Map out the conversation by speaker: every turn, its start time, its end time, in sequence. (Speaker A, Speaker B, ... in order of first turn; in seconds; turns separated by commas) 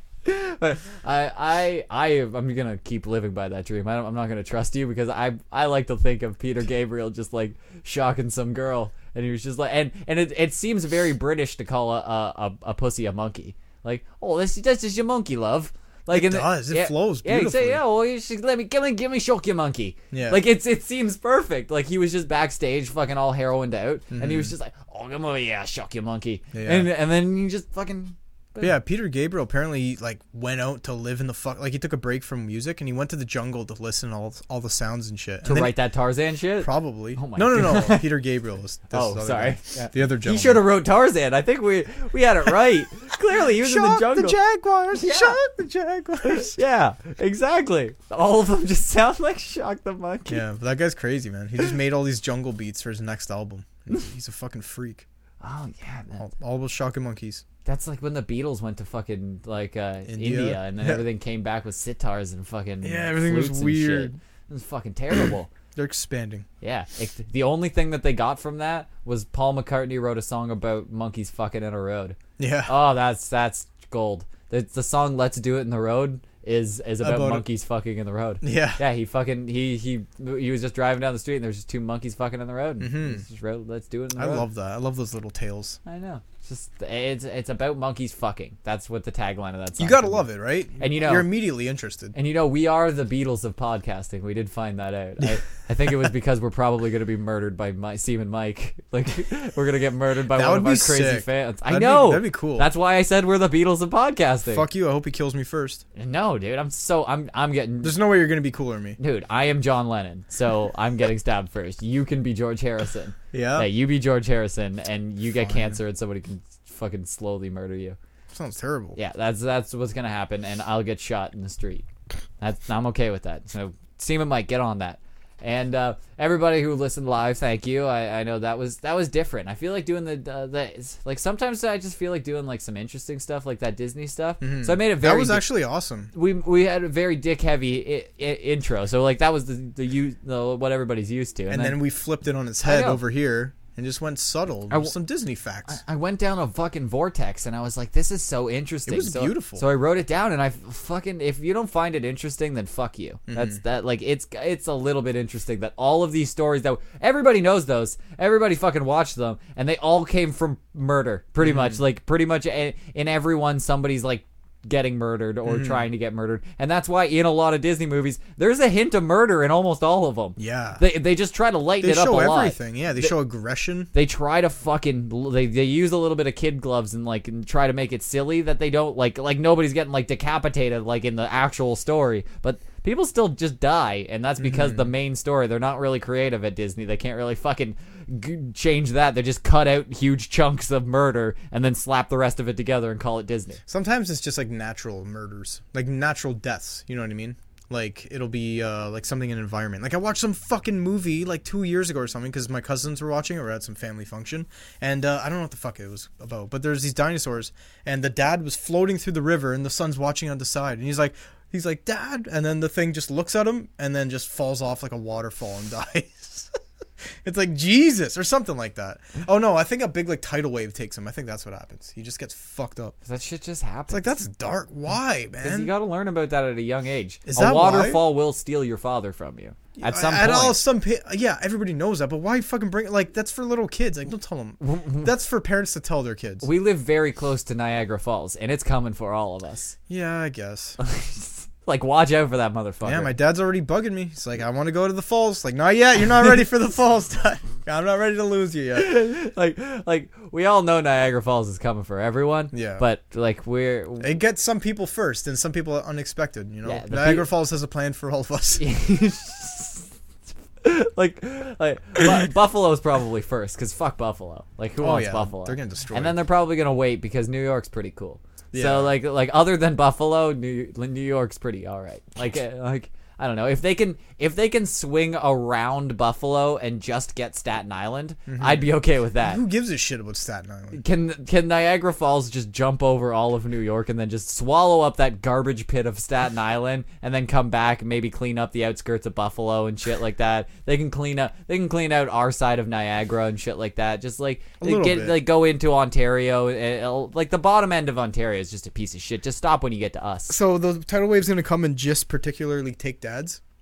Speaker A: 0.2-28.8, Speaker B: 16.1-17.8, Speaker B: 20.1-20.4, Speaker B: 24.1-24.5, Speaker B: 26.5-26.9, Speaker B: 28.6-35.8, Speaker A: 35.4-38.1, Speaker B: 36.6-40.6, Speaker A: 38.9-44.4, Speaker B: 43.5-46.6, Speaker A: 44.9-45.4, Speaker A: 46.2-50.5, Speaker B: 50.3-55.0, Speaker A: 55.4-56.2, Speaker B: 56.1-57.4, Speaker A: 57.6-65.5, Speaker B: 60.0-61.0, Speaker B: 62.8-64.2, Speaker B: 65.1-66.5, Speaker A: 66.6-84.5, Speaker B: 72.4-72.8, Speaker B: 77.0-77.5, Speaker B: 78.4-78.8, Speaker B: 82.8-83.2, Speaker B: 84.1-85.8, Speaker A: 85.8-91.3, Speaker B: 89.8-92.1, Speaker A: 92.1-104.7, Speaker B: 95.2-96.1, Speaker B: 100.3-102.7, Speaker B: 104.5-105.8, Speaker A: 105.9-108.0, Speaker B: 107.8-109.0, Speaker A: 109.0-118.0, Speaker B: 113.3-113.7, Speaker B: 115.3-115.8, Speaker B: 118.3-119.0, Speaker A: 118.9-121.8, Speaker A: 122.4-135.5, Speaker B: 134.4-136.1, Speaker A: 136.1-141.8, Speaker B: 141.5-145.8, Speaker A: 142.6-143.0, Speaker A: 145.7-173.2, Speaker B: 148.8-149.6, Speaker B: 153.3-153.6, Speaker B: 161.4-161.8, Speaker B: 165.4-165.8, Speaker B: 170.4-170.8, Speaker B: 171.8-173.9, Speaker A: 173.9-193.6, Speaker B: 184.4-184.9, Speaker B: 193.7-216.5, Speaker B: 217.2-222.9, Speaker A: 223.1-224.1, Speaker B: 223.9-225.7, Speaker A: 225.4-230.6, Speaker B: 227.3-228.1, Speaker B: 229.8-236.5, Speaker A: 234.6-235.1, Speaker A: 236.4-239.8, Speaker B: 239.9-240.8, Speaker A: 240.8-243.1, Speaker B: 242.8-249.0, Speaker A: 248.7-254.1, Speaker B: 252.5-252.8, Speaker B: 254.0-258.6, Speaker A: 256.6-257.3, Speaker A: 258.6-259.9, Speaker A: 260.6-279.4, Speaker B: 264.8-266.2, Speaker B: 268.5-268.9, Speaker B: 278.3-280.8, Speaker A: 280.7-300.4, Speaker B: 294.6-295.2, Speaker B: 300.3-303.4